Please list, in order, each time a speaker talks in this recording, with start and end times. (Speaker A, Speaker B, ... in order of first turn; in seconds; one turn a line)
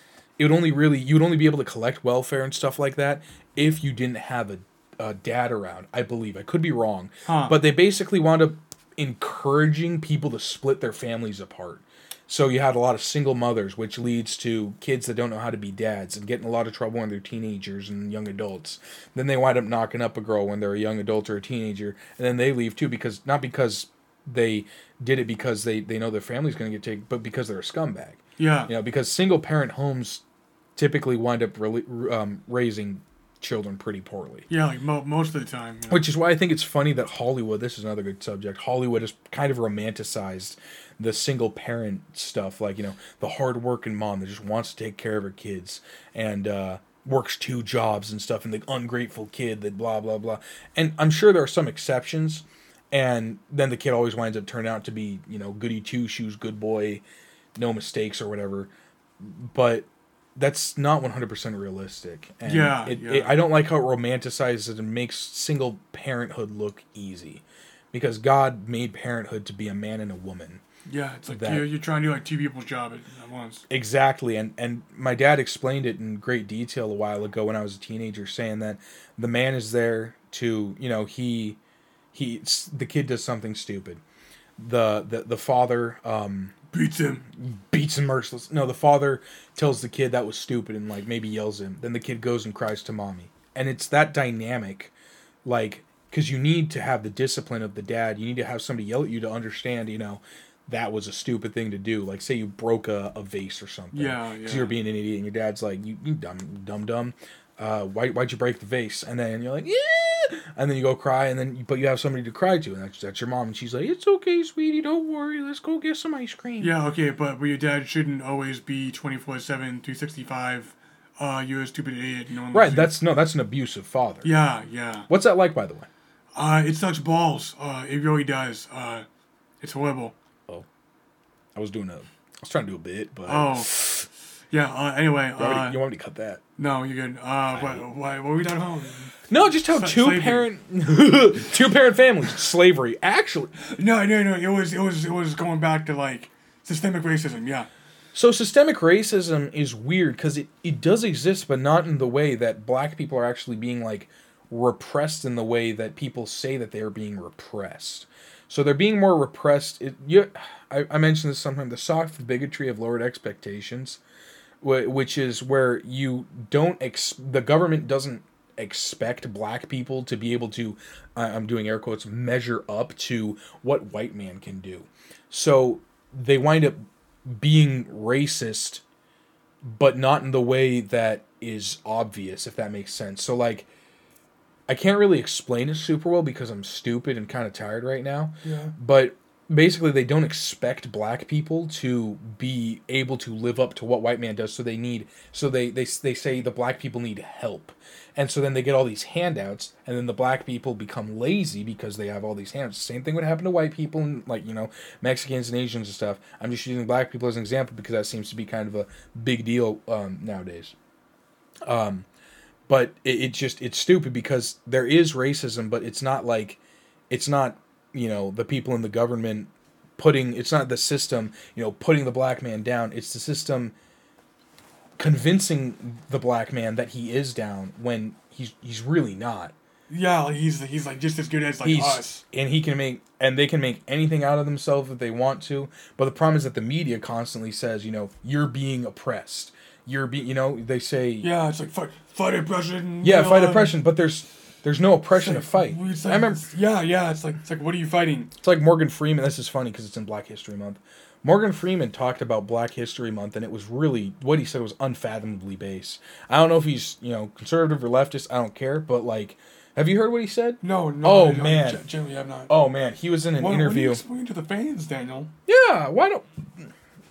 Speaker A: 0.4-30.2
Speaker B: 7.3-7.6
Speaker B: 28.4-28.7
Speaker A: 30.8-34.5
Speaker B: 34.5-36.1
Speaker A: 35.9-57.0
Speaker A: 57.6-70.6
Speaker B: 62.5-63.4
Speaker B: 70.9-73.7
Speaker A: 71.3-71.7
Speaker A: 73.7-81.6
Speaker A: 82.1-84.0
Speaker A: 84.6-86.5
Speaker B: 86.7-87.3
Speaker A: 87.4-94.9
Speaker A: 95.5-116.7
Speaker B: 103.9-104.7
Speaker B: 116.6-123.0
Speaker A: 122.5-124.3
Speaker B: 124.2-125.1
Speaker A: 125.1-125.9
Speaker B: 126.3-129.1
Speaker B: 129.6-130.2
Speaker A: 131.6-134.1
Speaker B: 133.3-133.7
Speaker B: 134.5-135.8
Speaker A: 135.4-136.4
Speaker B: 136.6-139.2
Speaker A: 139.3-143.5
Speaker B: 139.7-140.5
Speaker B: 143.6-147.7
Speaker A: 148.1-164.0
Speaker A: 164.6-178.8
Speaker A: 179.6-183.7
Speaker A: 184.7-210.8
Speaker B: 188.4-188.7
Speaker A: 211.7-212.1
Speaker A: 212.7-223.8
Speaker A: 225.0-229.5
Speaker B: 229.9-232.2
Speaker A: 231.6-241.3
Speaker B: 241.2-243.8
Speaker A: 243.0-246.5
Speaker B: 245.1-248.3
Speaker A: 248.4-261.9
Speaker B: 260.6-262.5
Speaker A: 262.5-264.0
Speaker B: 263.4-265.3
Speaker A: 265.5-266.7